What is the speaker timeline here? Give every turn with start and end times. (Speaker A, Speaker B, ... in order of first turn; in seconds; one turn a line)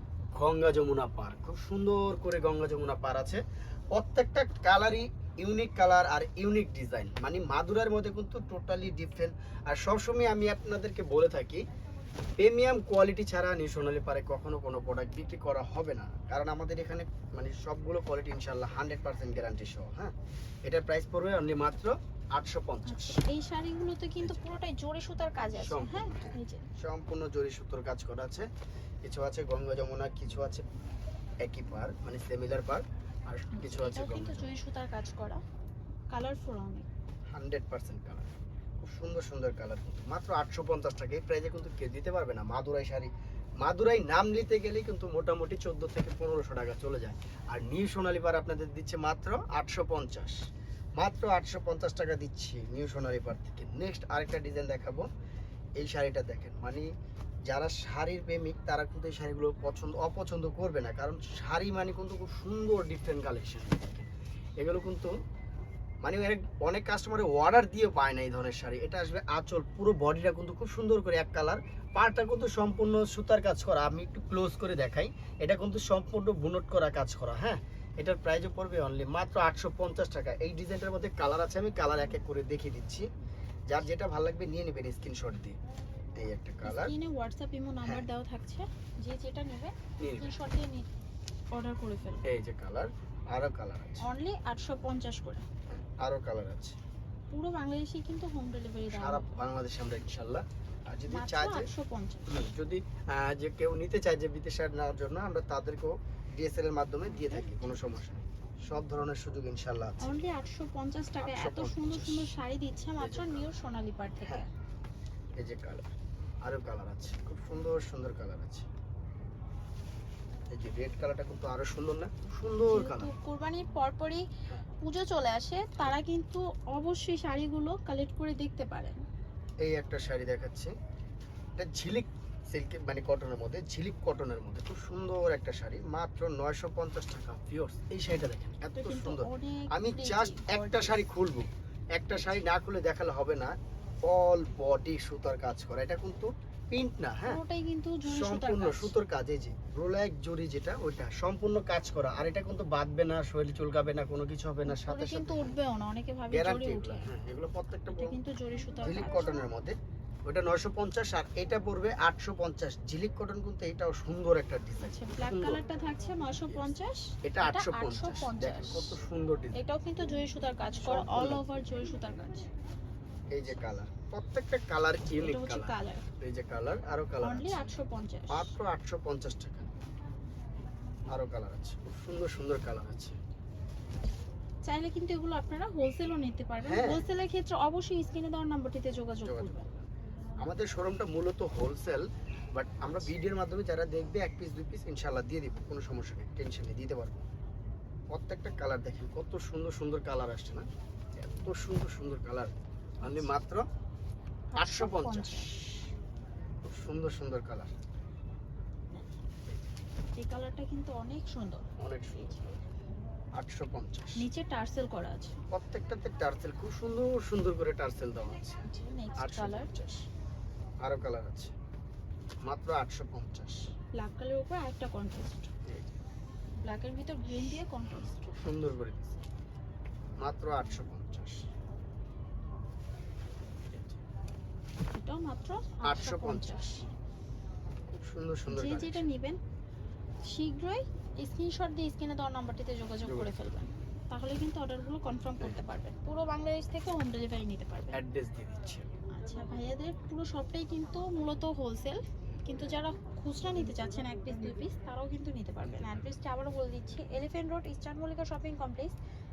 Speaker A: 0.3-3.4
Speaker A: 3.9-11.6
Speaker A: 12.4-23.2
Speaker B: 22.9-26.6
Speaker A: 24.2-24.5
Speaker A: 25.6-28.5
Speaker A: 29.0-30.6
Speaker A: 31.4-34.5
Speaker B: 33.5-35.4
Speaker B: 36.1-36.9
Speaker A: 37.3-50.4
Speaker A: 51.0-55.1
Speaker A: 55.8-56.9
Speaker A: 57.5-64.1
Speaker A: 64.6-65.1
Speaker A: 66.0-83.0
Speaker A: 83.7-85.6
Speaker A: 86.2-86.9
Speaker B: 86.6-90.9
Speaker A: 90.0-90.3
Speaker B: 91.5-92.2
Speaker A: 92.2-94.0
Speaker B: 94.0-95.5
Speaker A: 95.7-96.8
Speaker B: 97.3-99.5
Speaker A: 98.9-101.7
Speaker B: 101.1-102.4
Speaker A: 102.3-110.1
Speaker B: 107.2-107.8
Speaker B: 110.0-114.5
Speaker A: 111.2-112.3
Speaker A: 113.0-113.5
Speaker A: 114.2-114.5
Speaker A: 115.4-115.9
Speaker A: 116.4-118.7
Speaker A: 120.5-123.1
Speaker B: 122.7-124.3
Speaker B: 124.8-129.0
Speaker A: 129.6-130.7
Speaker A: 131.6-143.5
Speaker B: 138.7-141.0
Speaker A: 144.1-147.4
Speaker B: 147.2-148.9
Speaker A: 148.1-155.6
Speaker B: 154.6-157.1
Speaker A: 156.3-158.2
Speaker B: 157.9-159.4
Speaker A: 158.8-159.8
Speaker A: 160.3-165.6
Speaker B: 164.8-168.9
Speaker A: 167.2-169.6
Speaker B: 169.5-172.5
Speaker A: 170.8-171.4
Speaker A: 173.3-177.8
Speaker B: 175.2-176.1
Speaker B: 177.2-178.5
Speaker A: 178.3-179.7
Speaker A: 181.1-183.2
Speaker B: 184.6-189.8
Speaker A: 186.6-187.0
Speaker A: 189.2-189.7
Speaker A: 190.4-197.2
Speaker A: 198.1-203.6
Speaker B: 203.0-203.3
Speaker B: 204.5-205.5
Speaker A: 204.6-205.9
Speaker A: 206.6-207.7
Speaker B: 208.9-209.2
Speaker B: 210.1-211.7
Speaker A: 211.8-212.6
Speaker A: 213.4-214.2
Speaker B: 214.2-215.4
Speaker A: 215.5-218.6
Speaker B: 218.6-219.7
Speaker A: 219.2-220.0
Speaker A: 220.8-221.5
Speaker A: 222.4-223.7
Speaker B: 223.9-225.5
Speaker A: 225.7-225.9
Speaker B: 226.6-228.3
Speaker A: 228.3-229.2
Speaker A: 230.2-231.4
Speaker A: 233.7-234.0
Speaker B: 234.9-236.8
Speaker A: 235.8-236.9
Speaker A: 237.9-239.1
Speaker B: 238.5-239.4
Speaker B: 240.2-248.0
Speaker A: 243.0-243.3
Speaker A: 247.9-248.9
Speaker B: 249.1-259.0
Speaker A: 255.6-256.0